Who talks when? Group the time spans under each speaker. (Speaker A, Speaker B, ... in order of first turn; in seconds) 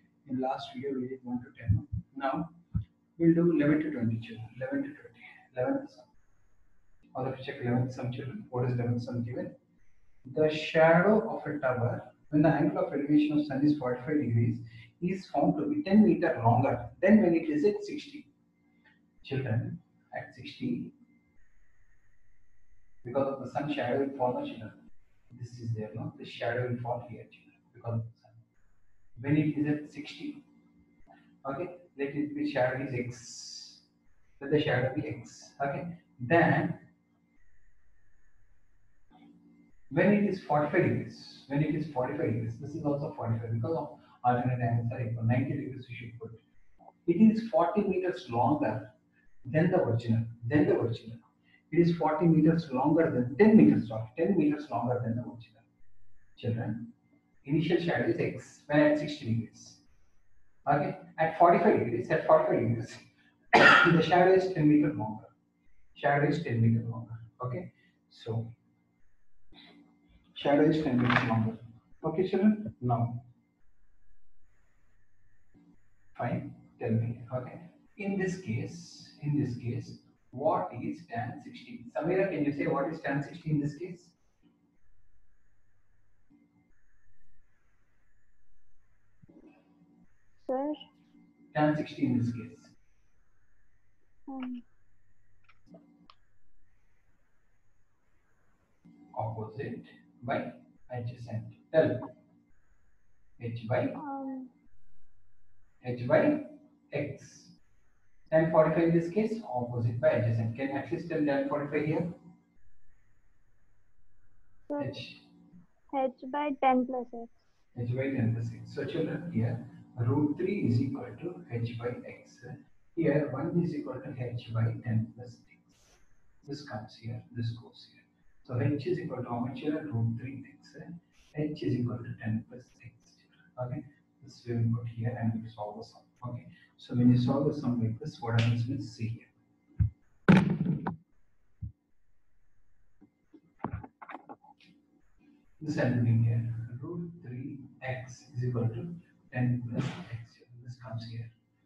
Speaker A: 0.2-2.5, 3.2-6.0, 7.1-9.5, 10.2-18.3, 19.2-20.9, 23.0-24.8, 25.3-28.4, 29.2-30.4, 31.4-33.8, 34.4-36.9, 39.9-46.4, 47.0-48.9, 49.5-55.6, 56.4-56.9, 57.4-59.8, 60.6-63.0, 63.5-65.3, 65.9-68.5, 70.3-73.2, 76.1-84.1, 91.5-92.7, 99.1-102.1, 103.4-104.0, 105.8-107.5, 108.3-112.2, 114.8-115.2, 117.8-125.6, 126.5-139.3, 145.6-151.3
Speaker B: 90.5-90.8, 94.3-94.6, 104.0-104.5, 114.7-115.0, 115.9-117.3